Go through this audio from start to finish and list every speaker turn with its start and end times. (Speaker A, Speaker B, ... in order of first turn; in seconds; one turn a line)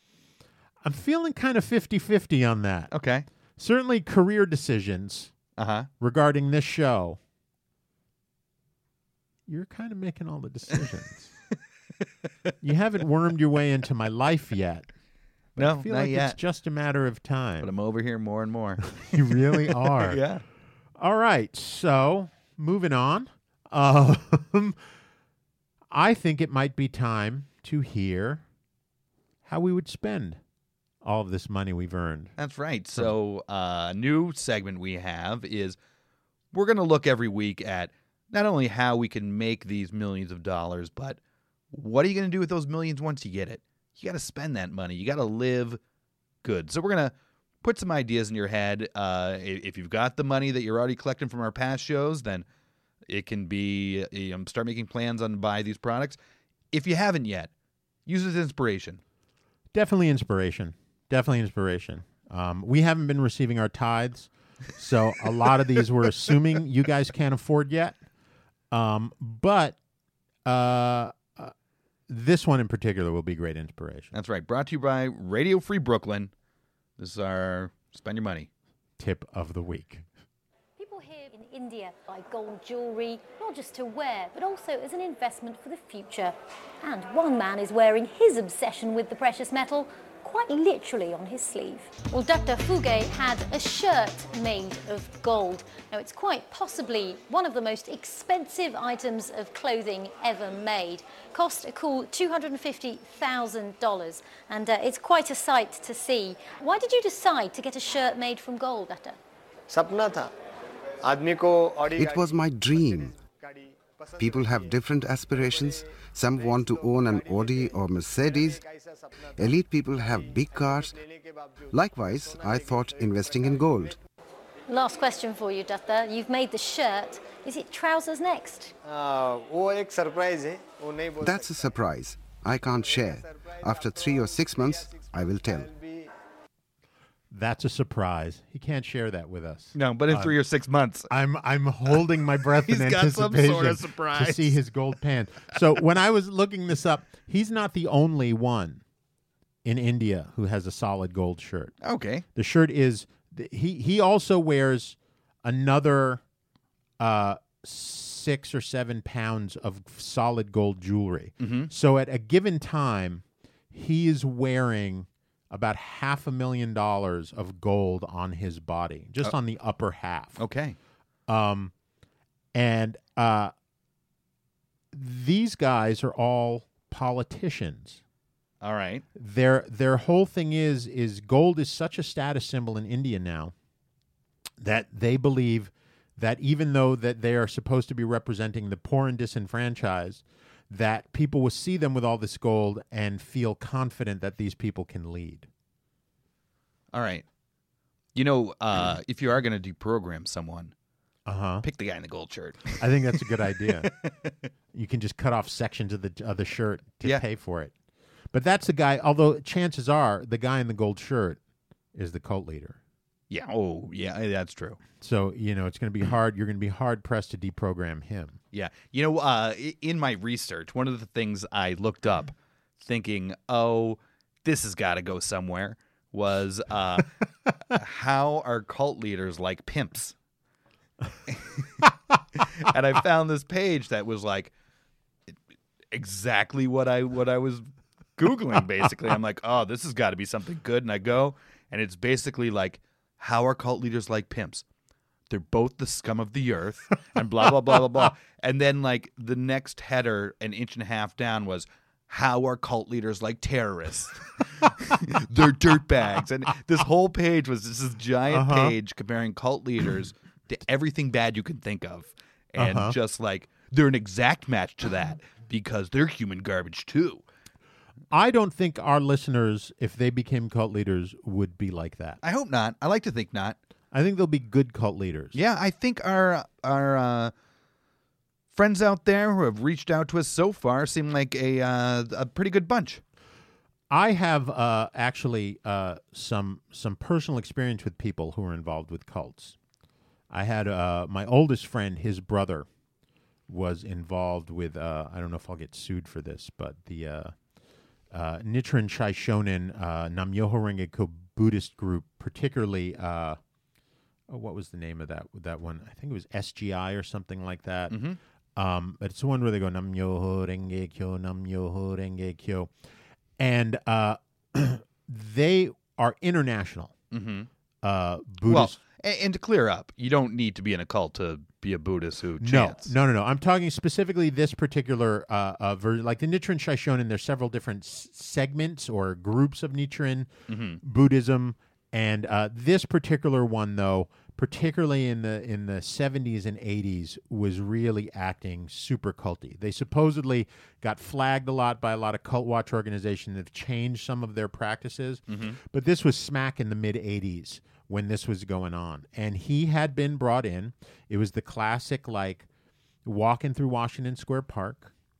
Speaker A: 0.8-2.9
Speaker B: 2.9-3.2
Speaker A: 3.6-5.3
Speaker B: 5.6-5.9
Speaker A: 6.0-7.2
Speaker A: 9.5-11.3
Speaker A: 12.6-14.9
Speaker A: 15.6-17.7
Speaker B: 15.6-16.4
Speaker B: 17.6-20.4
Speaker A: 18.9-20.2
Speaker A: 21.0-24.8
Speaker A: 25.9-28.4
Speaker A: 29.4-30.4
Speaker A: 31.0-32.3
Speaker B: 32.4-35.8
Speaker B: 36.5-41.2
Speaker B: 41.7-45.8
Speaker B: 46.4-52.5
Speaker B: 53.1-56.2
Speaker B: 56.7-57.5
Speaker B: 58.0-59.0
Speaker A: 59.7-68.0
Speaker A: 68.7-69.8
Speaker A: 70.4-71.5
Speaker A: 72.1-74.1
Speaker B: 74.1-76.3
Speaker B: 77.0-78.5
Speaker A: 79.0-80.0
Speaker C: 80.8-109.2
Speaker D: 109.7-110.3
Speaker D: 111.0-124.0
Speaker E: 111.9-113.1
Speaker E: 114.2-118.6
Speaker E: 119.3-121.0
Speaker E: 121.7-124.0
Speaker C: 124.7-128.7
Speaker D: 128.8-131.7
Speaker E: 131.2-135.7
Speaker D: 132.6-136.1
Speaker A: 137.3-140.3
Speaker B: 139.7-141.1
Speaker A: 141.1-148.8
Speaker B: 142.6-144.6
Speaker A: 149.6-151.8
Speaker B: 151.8-152.2
Speaker A: 152.3-156.2
Speaker A: 157.0-170.4
Speaker B: 161.4-161.7
Speaker B: 170.4-170.8
Speaker A: 171.3-171.7
Speaker A: 172.5-173.5
Speaker A: 174.9-178.0
Speaker B: 178.6-179.0
Speaker A: 179.1-183.5
Speaker A: 184.6-195.5
Speaker B: 196.9-197.2
Speaker B: 198.1-200.7
Speaker A: 201.2-201.7
Speaker B: 201.6-204.3
Speaker A: 202.8-203.9
Speaker A: 204.7-207.7
Speaker A: 208.3-211.4
Speaker A: 211.9-212.8
Speaker B: 213.3-214.8
Speaker A: 215.0-218.4
Speaker B: 218.5-227.1
Speaker B: 227.7-230.1
Speaker B: 231.3-234.5
Speaker B: 235.9-237.7
Speaker B: 238.2-244.6
Speaker B: 245.3-267.2
Speaker A: 258.3-258.8
Speaker A: 262.6-262.9
Speaker A: 268.1-272.2
Speaker B: 272.2-273.6
Speaker A: 273.9-275.4
Speaker B: 275.3-277.3
Speaker B: 278.5-283.0
Speaker A: 283.9-289.6
Speaker A: 290.3-292.7
Speaker A: 293.5-297.3
Speaker A: 298.1-303.4
Speaker A: 304.3-308.0
Speaker B: 307.9-308.2
Speaker A: 308.6-312.7
Speaker A: 313.4-316.9
Speaker B: 317.1-317.5
Speaker A: 317.8-318.8
Speaker B: 318.4-322.9
Speaker A: 322.4-352.5
Speaker B: 330.5-330.8
Speaker B: 345.3-345.6
Speaker A: 353.0-354.9